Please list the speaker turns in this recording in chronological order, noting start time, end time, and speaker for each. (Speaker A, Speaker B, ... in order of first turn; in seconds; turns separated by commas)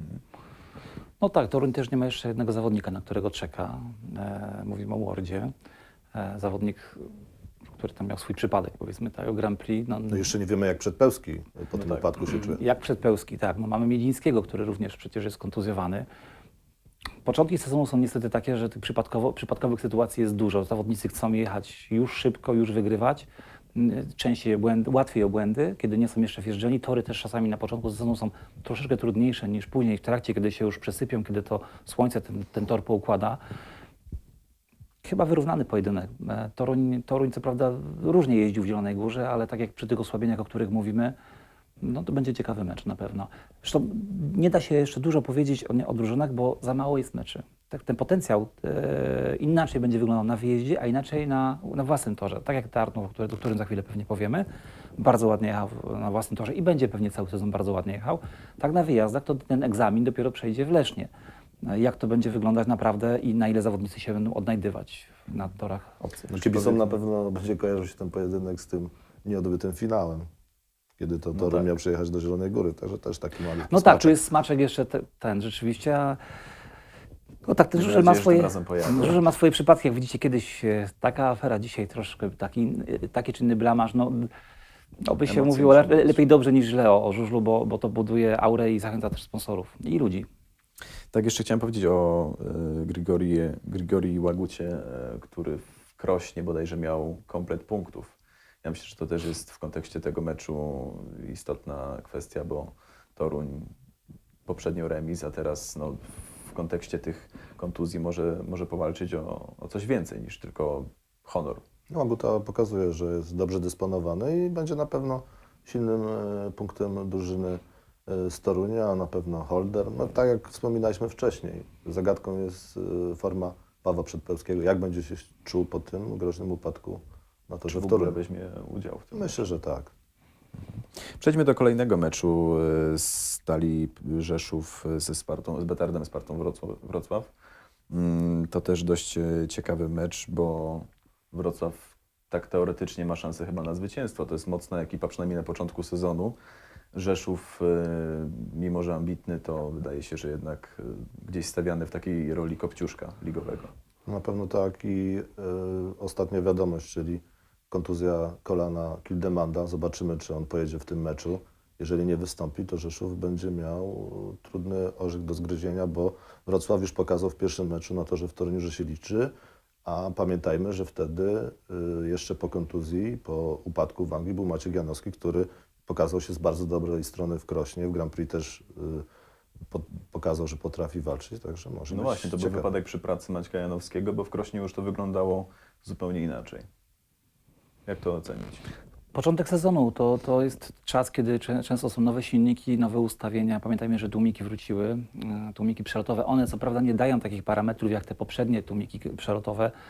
Speaker A: 1.2-5.5, Speaker A: 6.1-7.1, Speaker A: 7.8-10.3, Speaker B: 10.1-12.6, Speaker A: 12.3-16.1, Speaker A: 17.2-33.4, Speaker A: 35.0-41.1, Speaker A: 41.8-54.5, Speaker A: 55.0-61.1, Speaker A: 61.6-66.3, Speaker C: 66.3-66.8, Speaker B: 66.3-70.3, Speaker B: 71.0-74.2, Speaker C: 71.3-71.7, Speaker A: 73.7-76.2, Speaker A: 77.5-84.3, Speaker C: 77.8-79.2, Speaker A: 85.0-90.3, Speaker C: 85.3-86.2, Speaker C: 91.1-103.7, Speaker C: 104.5-111.6, Speaker B: 111.9-128.2, Speaker C: 127.7-129.4, Speaker B: 129.1-129.9, Speaker C: 131.2-137.3, Speaker C: 137.9-146.4, Speaker C: 146.9-153.7, Speaker B: 154.1-169.3, Speaker B: 169.8-179.1, Speaker B: 179.7-182.7, Speaker C: 181.9-186.7, Speaker C: 187.9-188.6, Speaker A: 189.1-199.7